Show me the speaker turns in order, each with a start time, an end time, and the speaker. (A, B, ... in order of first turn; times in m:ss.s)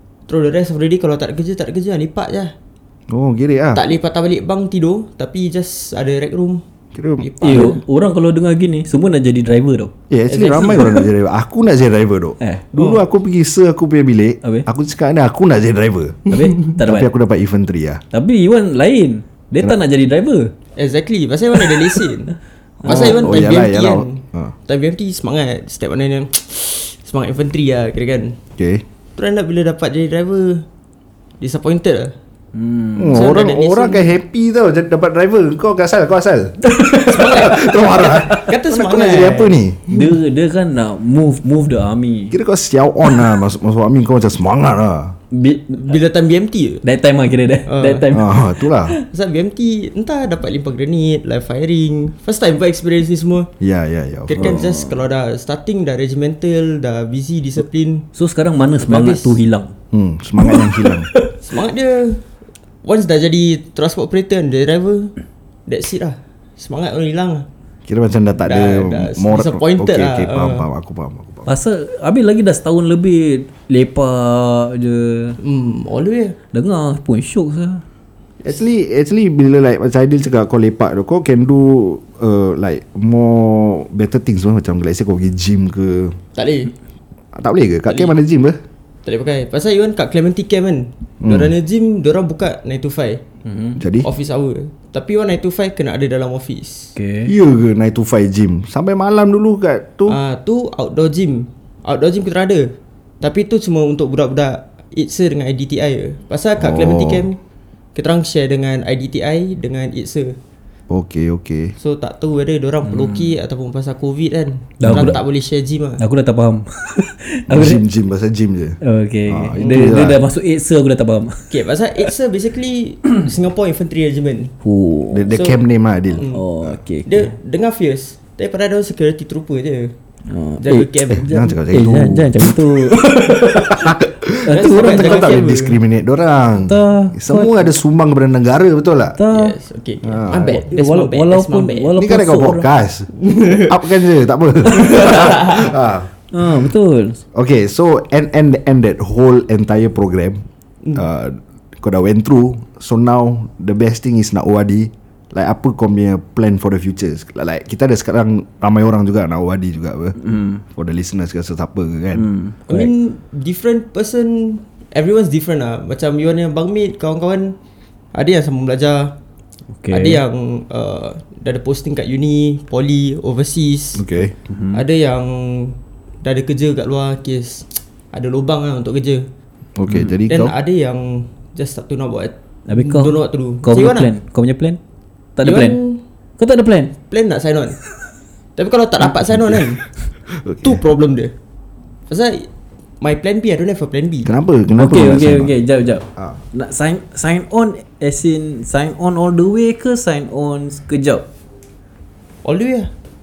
0:00.3-0:02.5 A
0:03.1-0:03.8 B
0:03.7-0:06.6 A
0:06.9-0:07.8 B
0:07.2-0:07.8 A
0:07.4-0:09.9 C
0:10.1-0:18.0 B
0:10.3-0:11.1 A
0:12.4-0:12.6 C
0:12.8-0:13.0 A
0:16.3-0:17.1 C
0:18.1-0:20.5 C
0:20.8-0:22.3 A
0:22.8-0:24.5 B
0:22.8-0:23.2 C
0:22.8-0:28.4 A
0:28.6-0:28.8 B
0:29.2-0:30.6 A
0:31.4-0:32.2 A
0:32.5-0:33.2 C
0:33.0-0:36.6 B
0:33.1-0:34.1 A
0:36.6-0:37.5 C
0:37.0-0:39.7 A
0:37.2-0:40.0 B
0:39.9-0:42.4 C
0:42.3-0:45.2 B
0:45.3-0:46.0 C
0:45.8-0:46.8 A
0:46.8-0:49.0 C
0:47.7-0:48.1 A
0:48.1-0:48.9 B
0:49.0-0:53.5 A
0:53.6-0:54.7 B
0:54.3-0:58.1 A
0:54.4-0:54.9 C
0:58.1-0:59.7 C
0:58.8-0:59.4 A
0:59.9-1:01.1 B
1:00.4-1:01.4 C
1:01.4-1:02.2 A
1:02.8-1:05.1 A
1:05.7-1:07.5 A
1:07.9-1:11.5 B
1:08.5-1:10.6 A
1:11.5-1:15.4 C
1:15.4-1:16.4 A
1:16.5-1:17.8 C
1:18.4-1:26.2 B
1:26.4-1:26.7 A
1:27.4-1:28.6 B
1:29.0-1:33.2 A
1:31.2-1:31.5 B
1:33.5-1:33.8 C
1:33.8-1:34.1 B
1:34.0-1:36.9 A
1:36.9-1:37.3 C
1:37.2-1:40.2 B
1:40.1-1:47.4 A
1:46.6-1:47.3 B
1:47.9-1:50.4 A
1:50.9-1:51.8 B
1:51.8-1:56.0 A
1:52.9-1:53.2 C
1:54.8-1:55.2 C
1:54.9-1:55.2 B
1:56.0-1:57.8 C
1:57.5-2:00.2 B
1:58.8-2:01.6 C
1:59.6-2:00.0 A
2:01.5-2:04.5 A
2:04.6-2:05.3 C
2:05.1-2:06.8 B
2:05.3-2:05.6 A
2:06.2-2:06.4 A
2:06.3-2:07.3 C
2:07.1-2:09.9 A
2:10.3-2:15.4 C
2:10.6-2:11.3 A
2:11.1-2:19.2 B
2:14.5-2:15.8 A
2:16.6-2:17.7 C
2:19.2-2:19.6 C
2:19.3-2:21.9 A
2:20.0-2:20.6 B
2:20.7-2:22.7 C
2:22.0-2:26.1 B
2:23.2-2:23.7 A
2:24.7-2:25.7 A
2:26.3-2:27.2 C
2:27.3-2:40.2 B
2:40.2-2:40.6 C
2:40.7-2:42.2 B
2:42.2-2:42.9 C
2:42.7-2:47.6 A
2:48.1-2:49.2 A
2:49.8-2:50.2 C
2:49.9-2:54.1 A
2:54.0-2:54.4 B
2:54.5-2:54.8 C
2:54.7-2:59.3 A
2:59.8-3:00.6 B
3:00.3-3:04.1 A
3:02.7-3:04.8 C
3:05.4-3:05.8 C
3:05.4-3:06.0 A
3:06.4-3:07.0 C
3:07.1-3:07.8 A
3:08.6-3:09.8 A
3:09.3-3:09.6 B
3:10.3-3:10.8 B
3:10.6-3:11.3 A
3:12.1-3:12.5 A
3:13.0-3:14.3 A
3:14.2-3:15.5 B
3:14.8-3:21.2 C
3:22.4-3:22.9 A